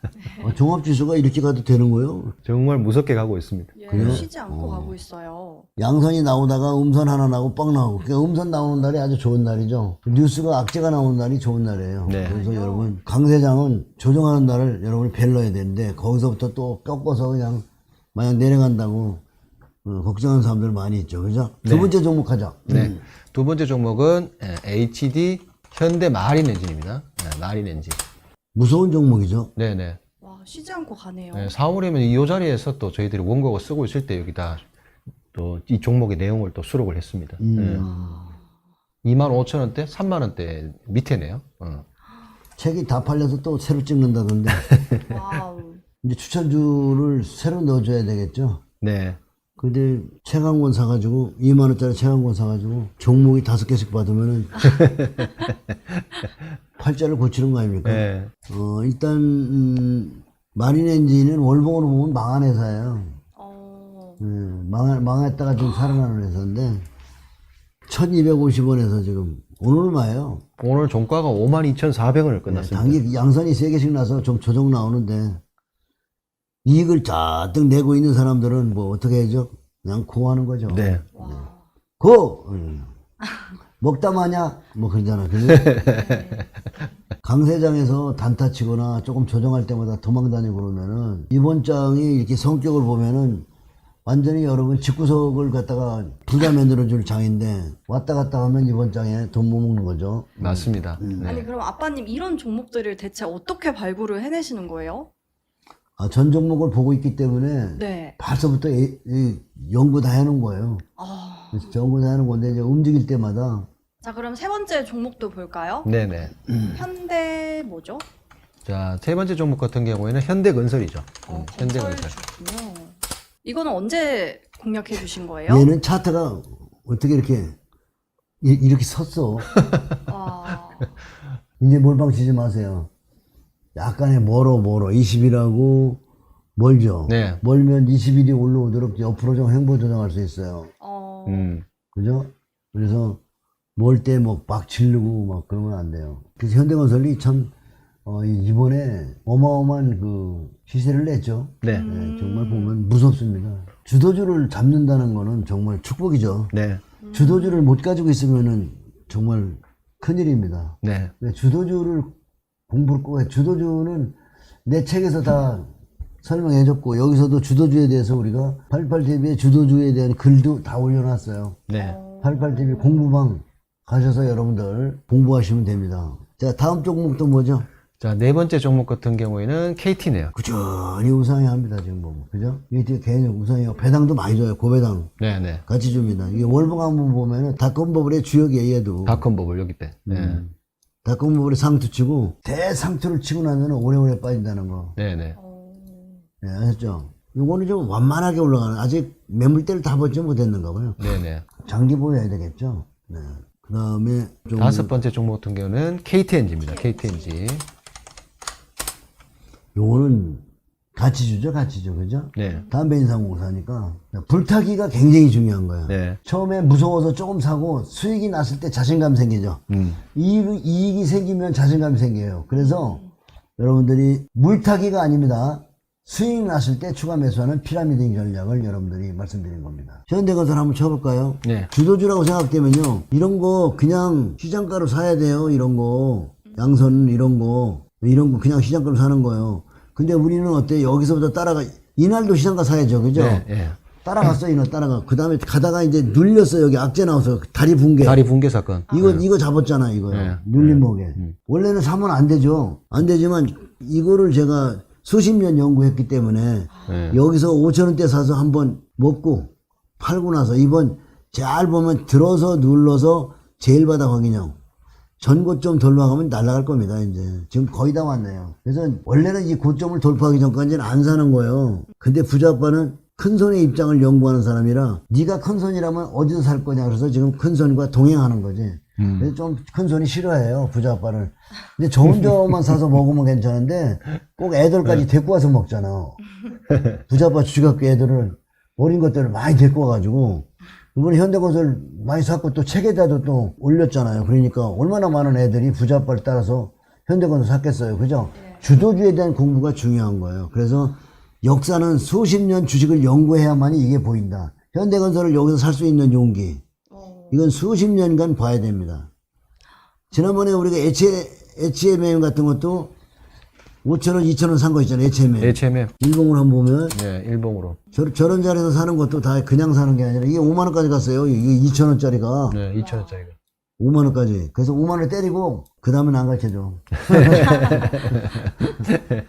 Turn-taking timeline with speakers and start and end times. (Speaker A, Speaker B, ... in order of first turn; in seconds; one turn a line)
Speaker A: 0.2-0.5
Speaker B: 0.4-2.4
Speaker C: 2.4-4.3
Speaker A: 3.8-5.7
Speaker B: 3.9-5.0
Speaker B: 5.8-19.2
Speaker C: 12.1-12.4
Speaker A: 12.2-12.9
Speaker B: 19.8-23.0
Speaker C: 21.6-21.9
Speaker C: 22.7-28.0
Speaker B: 28.5-29.5
Speaker C: 29.6-30.0
Speaker A: 30.2-31.5
Speaker C: 31.3-34.6
Speaker C: 35.3-37.9
Speaker B: 37.4-38.3
Speaker A: 37.7-38.4
Speaker C: 39.0-41.8
Speaker B: 42.5-44.7
Speaker C: 44.6-45.0
Speaker A: 45.0-45.8
Speaker B: 46.0-48.6
Speaker C: 48.8-49.2
Speaker B: 49.6-54.8
Speaker C: 54.6-56.3
Speaker B: 56.8-63.2
Speaker C: 57.8-58.3
Speaker A: 63.4-64.2
Speaker B: 64.2-66.8
Speaker B: 67.8-70.4
Speaker C: 70.6-73.0
Speaker B: 72.5-75.4
Speaker B: 76.6-81.5
Speaker C: 80.7-81.0
Speaker A: 81.1-81.7
Speaker B: 82.0-82.9
Speaker B: 83.8-85.9
Speaker C: 85.6-86.2
Speaker A: 85.8-86.9
Speaker B: 87.2-93.5
Speaker B: 94.0-101.5
Speaker C: 100.4-101.5
Speaker A: 101.2-105.1
Speaker B: 106.0-110.8
Speaker A: 107.8-108.2
Speaker A: 111.0-111.7
Speaker B: 111.5-113.7
Speaker A: 114.0-115.9
Speaker C: 115.8-116.3
Speaker B: 116.5-116.8
Speaker A: 116.7-118.0
Speaker C: 118.6-122.1
Speaker A: 121.3-125.7
Speaker B: 125.5-127.5
Speaker B: 128.4-129.5
Speaker A: 130.1-130.9
Speaker B: 131.6-132.9
Speaker B: 133.7-136.0
Speaker B: 136.6-140.7
Speaker C: 137.1-137.4
Speaker A: 140.8-141.5
Speaker C: 141.2-141.6
Speaker B: 141.9-143.2
Speaker B: 143.8-147.5
Speaker B: 148.0-156.5
Speaker C: 151.6-151.9
Speaker A: 151.7-152.8
Speaker C: 156.5-156.8
Speaker A: 157.0-157.7
Speaker B: 157.1-162.1
Speaker C: 160.8-161.1
Speaker B: 162.7-165.7
Speaker B: 166.2-171.6
Speaker C: 171.7-172.0
Speaker A: 171.8-173.1
Speaker B: 172.2-177.7
Speaker C: 178.0-180.3
Speaker B: 180.3-185.1
Speaker C: 185.2-185.6
Speaker B: 185.7-189.2
Speaker C: 189.1-190.4
Speaker B: 190.1-190.5
Speaker B: 191.0-194.9
Speaker C: 194.9-195.4
Speaker A: 195.3-196.2
Speaker B: 196.4-201.0
Speaker C: 201.0-201.4
Speaker B: 201.6-205.0
Speaker C: 204.6-207.6
Speaker A: 206.6-207.3
Speaker B: 209.7-210.4
Speaker B: 210.9-223.0
Speaker C: 212.3-212.7
Speaker A: 212.4-212.7
Speaker C: 215.9-216.2
Speaker C: 219.7-220.0
Speaker A: 222.5-223.1
Speaker B: 223.6-243.5
Speaker C: 231.4-231.7
Speaker C: 243.1-244.3
Speaker B: 244.0-248.2
Speaker C: 248.0-249.2
Speaker A: 248.9-249.2
Speaker B: 248.9-264.6
Speaker C: 250.1-251.3
Speaker C: 256.9-257.2
Speaker B: 265.2-286.2
Speaker C: 279.0-279.3
Speaker B: 287.1-306.6
Speaker A: 298.3-298.6
Speaker A: 306.9-307.4
Speaker B: 307.3-309.1
Speaker B: 310.1-312.9
Speaker B: 313.8-317.0
Speaker C: 315.4-315.9
Speaker C: 316.9-317.8
Speaker A: 317.9-318.4
Speaker B: 317.9-322.6
Speaker C: 322.5-323.3
Speaker A: 322.8-323.3
Speaker B: 323.8-328.3
Speaker C: 327.1-329.0